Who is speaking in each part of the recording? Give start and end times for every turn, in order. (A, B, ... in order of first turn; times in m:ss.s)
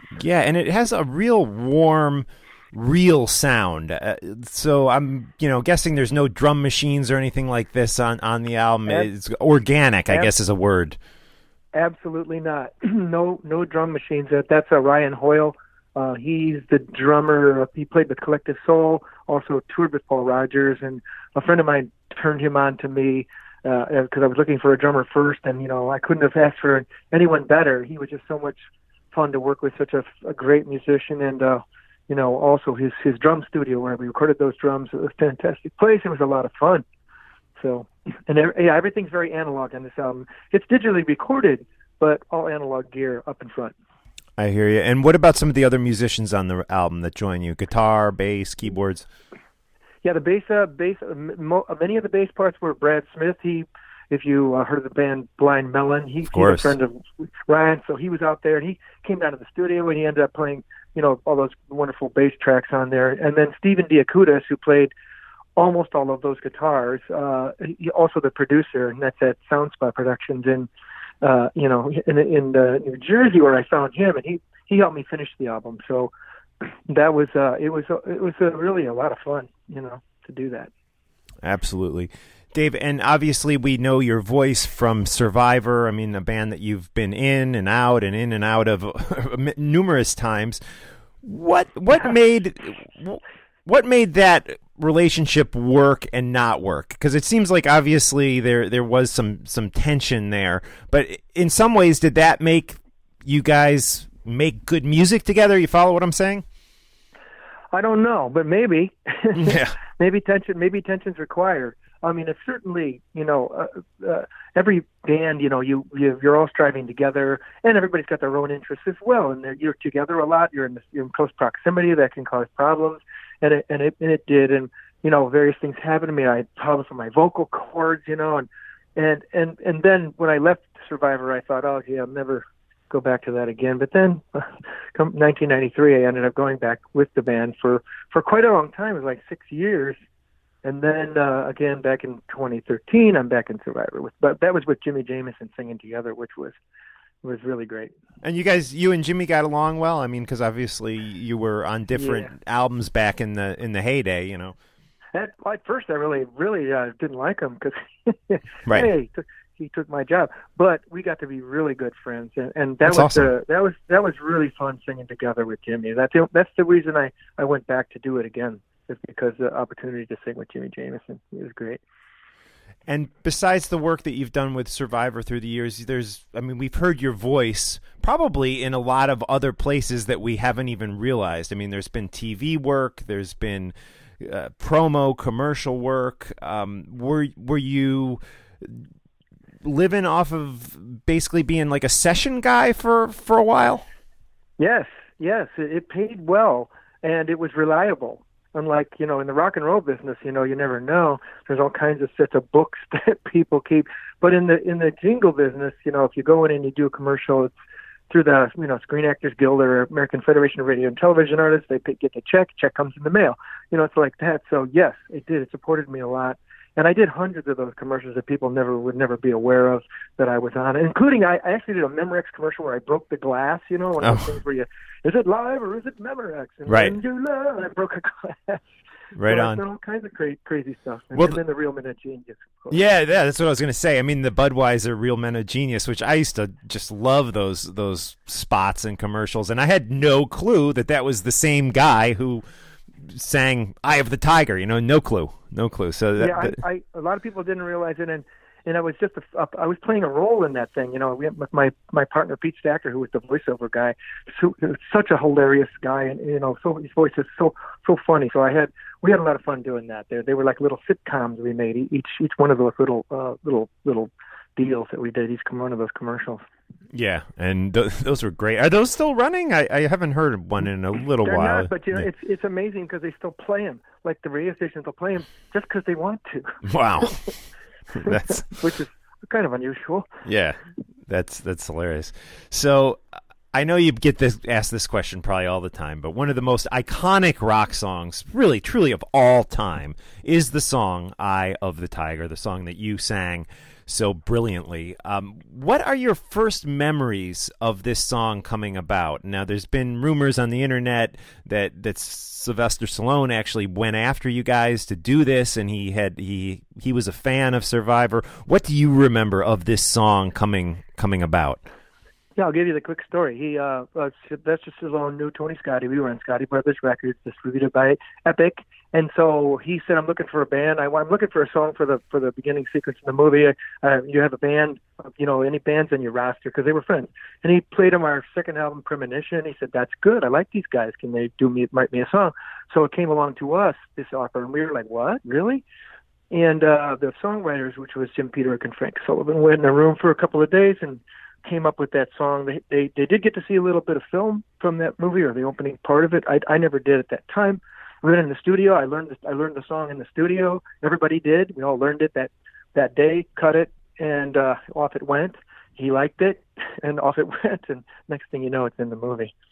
0:00.2-0:11.0 A
0:11.7-0:28.6 B
0:29.1-0:36.8 B
0:37.6-0:43.8 B
0:44.4-0:49.1 A
0:50.0-1:04.9 B
0:56.3-0:56.8 A
1:05.6-1:10.7 B
1:11.2-1:20.7 B
1:21.4-1:30.6 A
1:31.2-1:46.4 A
1:47.7-2:20.0 B
1:49.4-1:49.8 A
2:20.6-2:26.6 B
2:27.2-2:27.9 B
2:28.2-2:34.6 A
2:32.0-2:32.3 B
2:35.1-2:51.8 B
2:42.8-2:43.3 A
2:52.9-3:08.9 A
3:09.6-3:13.8 A
3:14.6-3:27.5 B
3:28.1-3:48.6 B
3:44.0-3:44.4 A
3:46.7-3:47.0 A
3:49.2-3:49.6 A
3:49.2-3:52.8 B
3:51.1-3:51.4 A
3:52.7-4:02.4 A
4:03.0-4:06.6 A
4:06.2-4:26.4 B
4:26.9-4:32.1 A
4:31.2-4:37.2 B
4:36.6-4:37.3 A
4:37.9-4:38.6 A
4:38.1-4:40.1 B
4:40.2-5:11.6 A
5:12.4-5:35.6 B
5:36.3-5:59.3 B